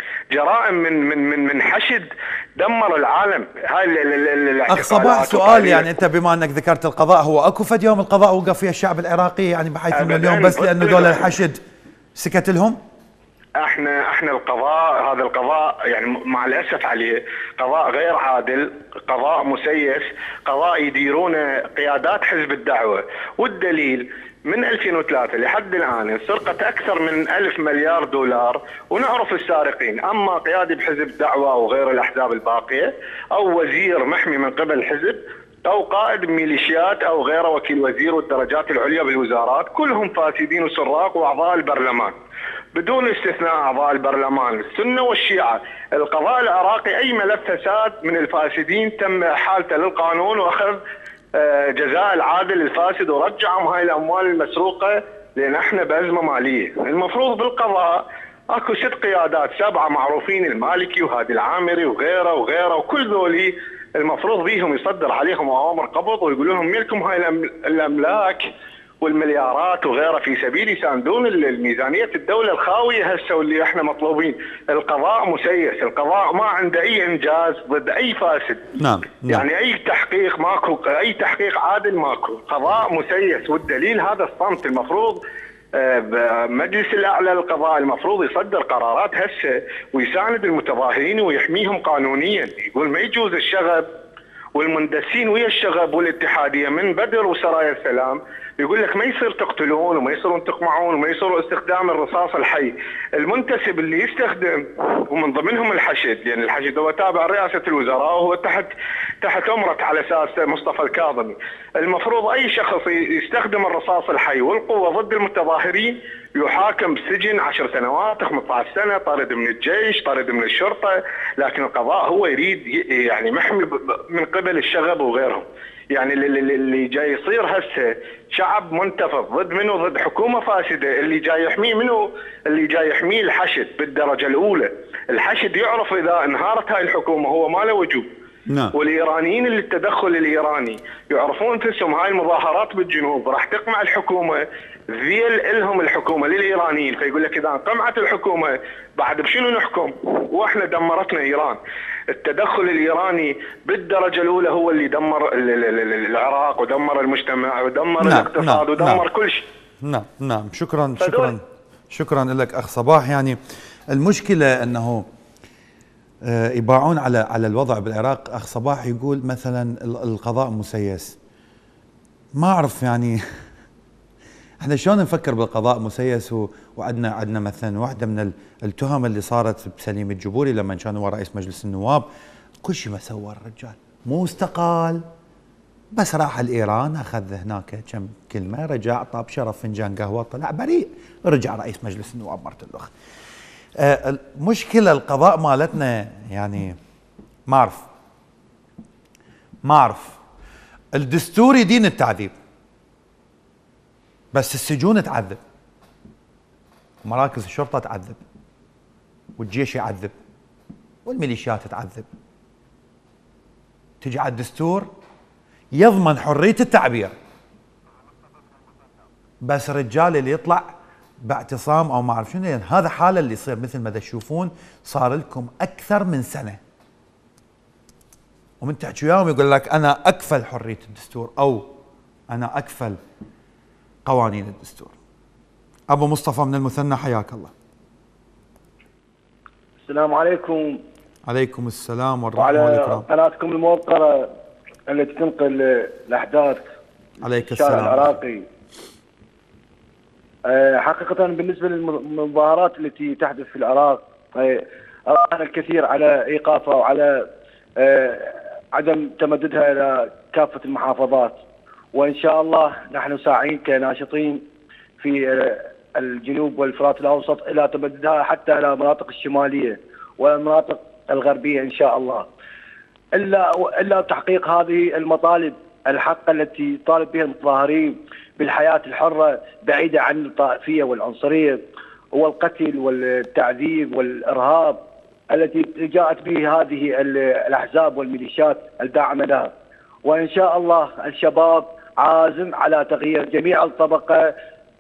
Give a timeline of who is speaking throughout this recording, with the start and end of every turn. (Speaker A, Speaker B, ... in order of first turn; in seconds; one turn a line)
Speaker A: 0.3-5.9
Speaker B: 4.7-11.6
Speaker A: 9.9-11.3
Speaker B: 12.2-12.8
Speaker A: 13.6-42.1
Speaker A: 42.8-50.8
Speaker A: 51.4-68.5
Speaker A: 69.0-78.6
Speaker B: 78.8-79.5
Speaker A: 79.3-85.2
Speaker A: 85.8-93.9
Speaker A: 94.5-108.7
Speaker A: 109.2-138.1
Speaker B: 138.5-138.8
Speaker A: 138.8-151.6
Speaker A: 152.1-159.4
Speaker B: 158.0-159.0
Speaker B: 159.8-163.4
Speaker A: 161.0-161.4
Speaker B: 163.9-165.1
Speaker B: 166.2-171.2
Speaker B: 172.3-173.2
Speaker B: 174.6-182.1
Speaker B: 182.6-185.0
Speaker B: 185.9-192.9
Speaker B: 193.8-196.8
Speaker B: 197.5-197.9
Speaker B: 199.7-200.2
Speaker B: 200.9-202.3
Speaker B: 204.3-205.4
Speaker B: 207.1-208.2
Speaker B: 209.4-210.2
Speaker B: 211.1-212.1
Speaker B: 214.0-214.9
Speaker B: 215.7-217.2
Speaker B: 219.4-220.7
Speaker B: 221.2-226.6
Speaker B: 228.6-231.7
Speaker B: 232.3-233.0
Speaker B: 234.1-234.9
Speaker B: 235.9-237.5
Speaker C: 239.8-240.8
Speaker B: 241.3-243.1
Speaker C: 242.4-244.3
Speaker C: 244.9-246.6
Speaker B: 247.2-248.2
Speaker C: 247.5-248.5
Speaker C: 250.5-257.2
Speaker C: 257.8-261.4
Speaker C: 261.9-264.4
Speaker C: 265.0-272.3
Speaker C: 273.2-281.6
Speaker C: 282.1-284.8
Speaker C: 285.3-289.5
Speaker C: 290.0-294.3